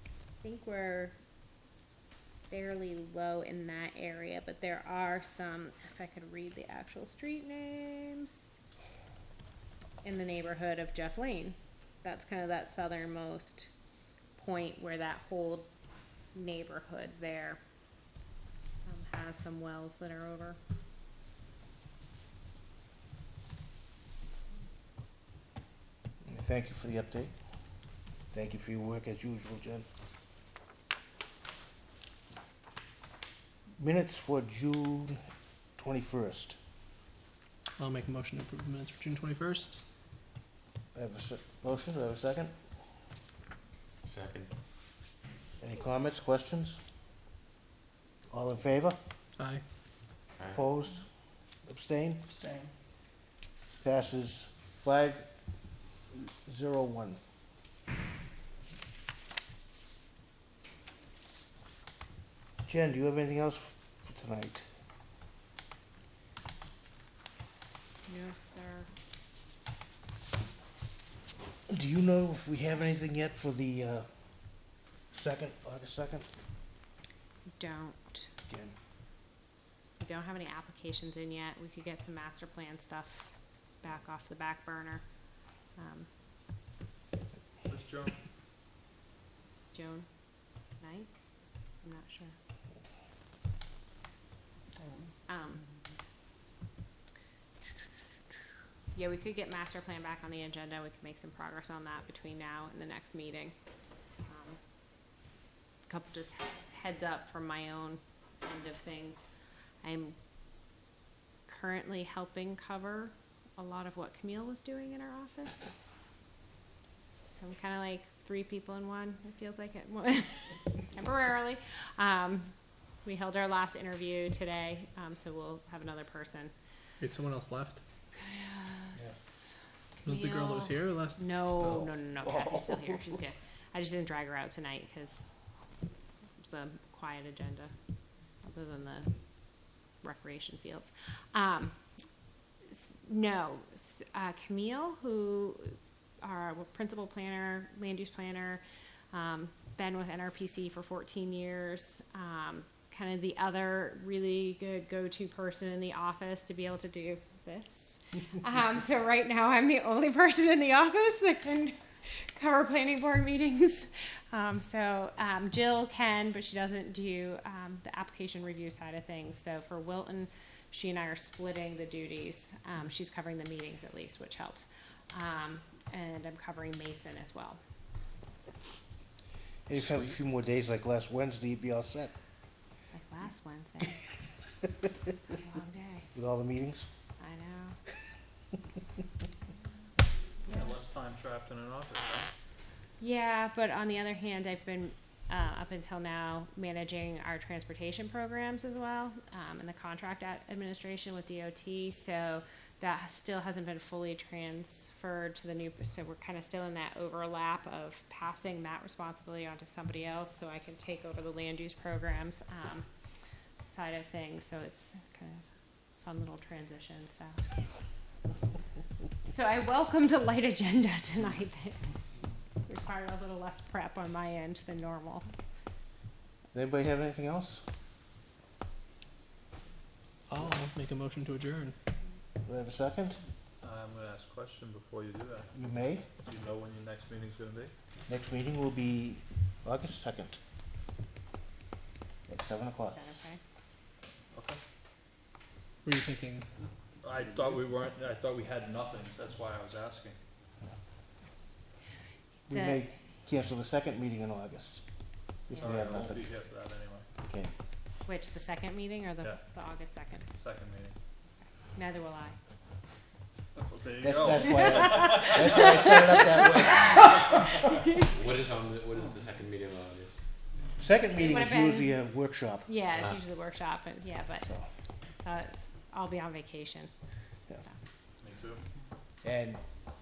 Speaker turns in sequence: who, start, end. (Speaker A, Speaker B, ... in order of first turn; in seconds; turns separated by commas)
Speaker A: 0.4-1.1, Speaker A: 2.5-8.6, Speaker A: 10.0-13.7, Speaker A: 14.3-15.7, Speaker A: 16.3-17.6, Speaker A: 18.8-20.6, Speaker B: 26.2-27.3, Speaker B: 28.3-29.9, Speaker B: 33.8-35.2, Speaker B: 35.8-36.6, Speaker C: 37.8-39.8, Speaker B: 40.9-42.5, Speaker D: 44.0-44.5, Speaker B: 45.6-46.8, Speaker B: 48.3-49.0, Speaker C: 49.4-49.6, Speaker B: 50.5-52.3, Speaker B: 53.8-55.3, Speaker B: 56.1-57.2, Speaker B: 62.6-64.7, Speaker A: 68.1-68.9, Speaker B: 71.7-76.3, Speaker A: 77.6-78.3, Speaker B: 78.5-78.7, Speaker A: 80.0-85.0, Speaker A: 85.7-86.1, Speaker E: 87.6-88.2, Speaker A: 89.7-90.1, Speaker A: 90.7-91.1, Speaker A: 91.8-92.3, Speaker A: 95.3-95.6, Speaker A: 98.9-103.5, Speaker A: 104.2-104.6, Speaker A: 105.9-109.2, Speaker A: 109.8-110.2, Speaker A: 111.5-115.7, Speaker A: 117.3-122.5, Speaker A: 123.0-126.5, Speaker C: 127.0-127.8, Speaker A: 128.1-129.5, Speaker C: 130.0-131.8, Speaker A: 130.1-135.3, Speaker A: 136.4-137.7, Speaker A: 138.4-141.8, Speaker A: 142.7-177.6, Speaker B: 179.7-182.1, Speaker C: 179.7-180.0, Speaker A: 182.9-184.0, Speaker A: 185.3-186.1, Speaker B: 186.1-186.9, Speaker A: 187.2-187.8, Speaker E: 190.4-192.3, Speaker A: 190.5-190.8, Speaker A: 193.0-212.8, Speaker A: 213.6-217.5, Speaker A: 219.3-221.9, Speaker A: 222.6-225.3, Speaker B: 226.5-227.6, Speaker C: 230.3-231.8, Speaker B: 232.4-233.2, Speaker E: 233.6-235.5, Speaker B: 235.5-236.1, Speaker E: 236.2-237.7, Speaker B: 238.1-240.4, Speaker B: 242.3-243.2, Speaker A: 242.9-243.4, Speaker E: 244.3-244.6, Speaker C: 245.8-246.5, Speaker E: 247.0-250.2, Speaker B: 252.5-254.8, Speaker A: 252.5-252.8, Speaker B: 255.5-256.2, Speaker E: 255.6-257.1, Speaker B: 257.2-257.5, Speaker A: 258.1-260.2, Speaker E: 260.3-260.9, Speaker A: 261.7-262.4, Speaker E: 263.6-266.5, Speaker B: 264.0-267.0, Speaker A: 264.6-268.1, Speaker D: 268.1-270.2, Speaker B: 270.8-272.7, Speaker A: 271.2-271.9, Speaker A: 272.7-274.5, Speaker A: 275.2-276.9, Speaker E: 278.2-278.6, Speaker B: 279.2-279.6